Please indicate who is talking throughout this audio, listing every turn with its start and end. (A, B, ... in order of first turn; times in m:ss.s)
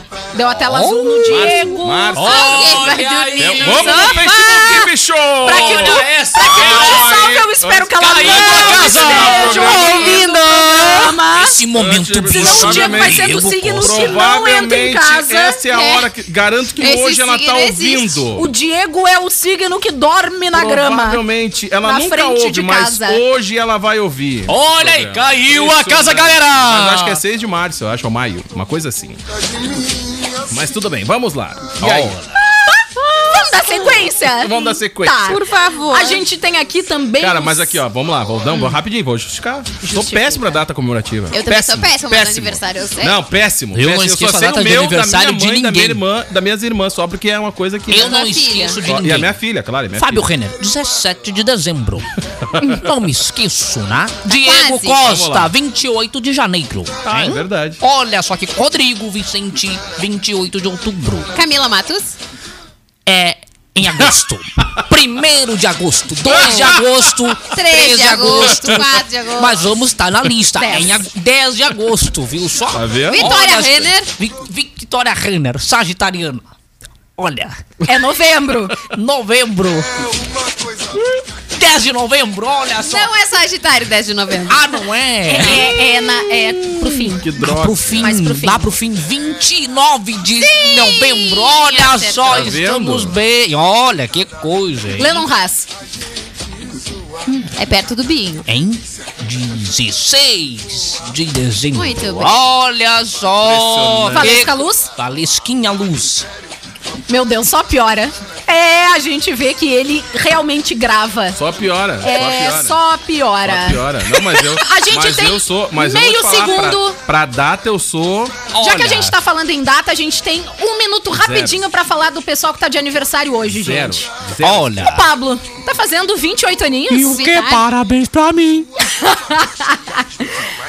0:00.3-0:02.3 A
0:00.6-0:04.3 B
0:01.3-0:10.2 C
0:02.2-0:04.9 D
0:04.3-0:04.8 A
0:05.4-0:11.6 A
0:05.4-0:07.1 B
0:08.0-0:14.2 B
0:11.7-0:18.5 C
0:12.3-0:15.6 A
0:15.7-0:16.0 D
0:16.8-0:18.2 D
0:18.4-0:21.2 A
0:20.5-0:29.2 C
0:21.8-0:23.2 A
0:24.5-0:27.2 B
0:30.5-0:32.2 C
0:31.8-0:32.3 B
0:32.6-0:37.8 A
0:34.2-0:35.4 C
0:35.2-0:36.2 D
0:37.2-0:48.2 C
0:38.5-0:38.8 A
0:39.8-0:40.6 A
0:41.3-0:43.2 D
0:43.7-0:46.0 B
0:47.9-0:49.3 B
0:47.9-0:48.8 D
0:48.8-0:50.3 C
0:50.0-1:01.3 B
0:54.3-0:55.0 D
0:55.0-0:55.5 C
0:57.0-0:57.8 C
1:01.3-1:02.2 D
1:03.1-1:16.4 B
1:06.3-1:06.8 D
1:07.4-1:09.6 D
1:10.6-1:11.0 A
1:12.7-1:13.4 C
1:13.1-1:14.1 D
1:17.2-1:17.6 B
1:17.9-1:18.8 A
1:18.7-1:19.8 B
1:21.5-1:23.1 B
1:22.8-1:24.8 D
1:24.5-1:25.7 B
1:25.3-1:27.2 A
1:26.4-1:28.2 C
1:27.4-1:35.2 B
1:28.0-1:28.7 A
1:30.4-1:32.4 D
1:32.3-1:33.2 C
1:34.9-1:35.7 A
1:37.5-1:38.4 D
1:38.4-1:46.2 B
1:41.7-1:42.4 D
1:43.4-1:44.5 C
1:44.1-1:44.9 A
1:47.1-1:51.4 A
1:51.3-1:52.8 C
1:52.0-1:57.0 A
1:53.4-1:58.5 C
1:58.5-1:59.2 B
1:58.6-2:04.1 A
2:01.1-2:01.6 C
2:03.5-2:04.8 C
2:04.4-2:05.1 B
2:04.8-2:07.2 A
2:06.9-2:08.7 B
2:06.9-2:07.7 D
2:08.8-2:10.3 A